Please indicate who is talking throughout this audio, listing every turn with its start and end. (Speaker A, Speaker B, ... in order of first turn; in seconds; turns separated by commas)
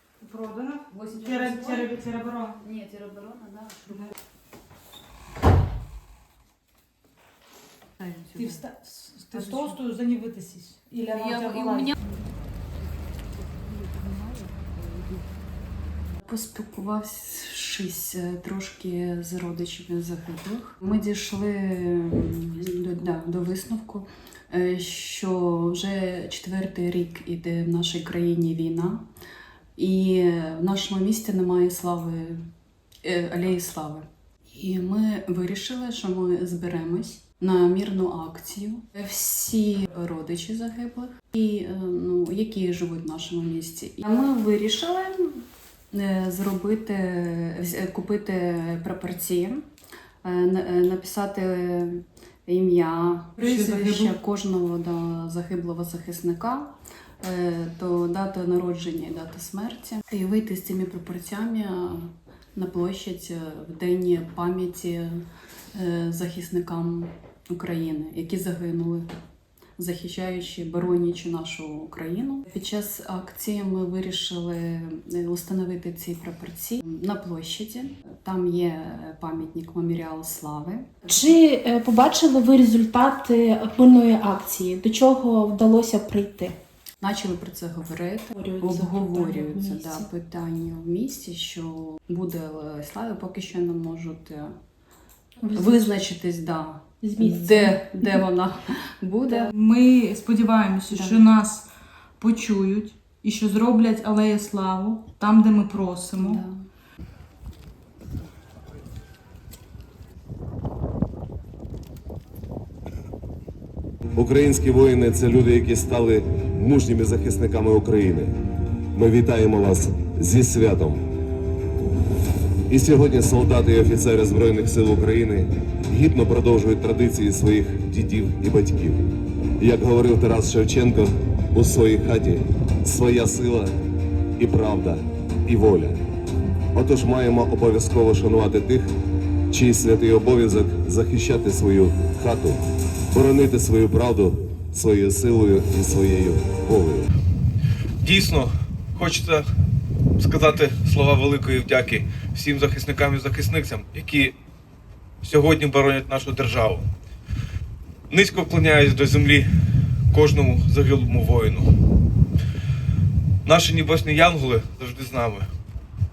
Speaker A: 0.2-2.6, Speaker B: 0.9-1.9, Speaker B: 2.6-4.1, Speaker B: 8.1-8.3, Speaker A: 8.3-12.0, Speaker B: 16.2-29.1, Speaker B: 29.8-32.5, Speaker B: 33.0-49.6, Speaker B: 50.2-69.2, Speaker A: 53.4-54.0, Speaker B: 69.8-81.1, Speaker C: 81.1-86.6, Speaker B: 87.0-94.5, Speaker C: 88.3-90.1, Speaker B: 95.4-99.5, Speaker C: 95.4-95.8, Speaker C: 97.0-98.1, Speaker A: 99.5-101.7, Speaker B: 100.9-101.2, Speaker A: 102.2-106.4, Speaker B: 106.2-106.6, Speaker D: 114.2-118.3, Speaker D: 118.9-121.0, Speaker D: 122.7-133.8, Speaker D: 134.4-136.0, Speaker D: 136.8-138.9, Speaker D: 139.5-147.1, Speaker E: 148.0-149.5, Speaker E: 150.2-154.3, Speaker E: 155.2-156.9, Speaker E: 158.1-159.5, Speaker E: 160.1-161.7, Speaker E: 163.4-165.5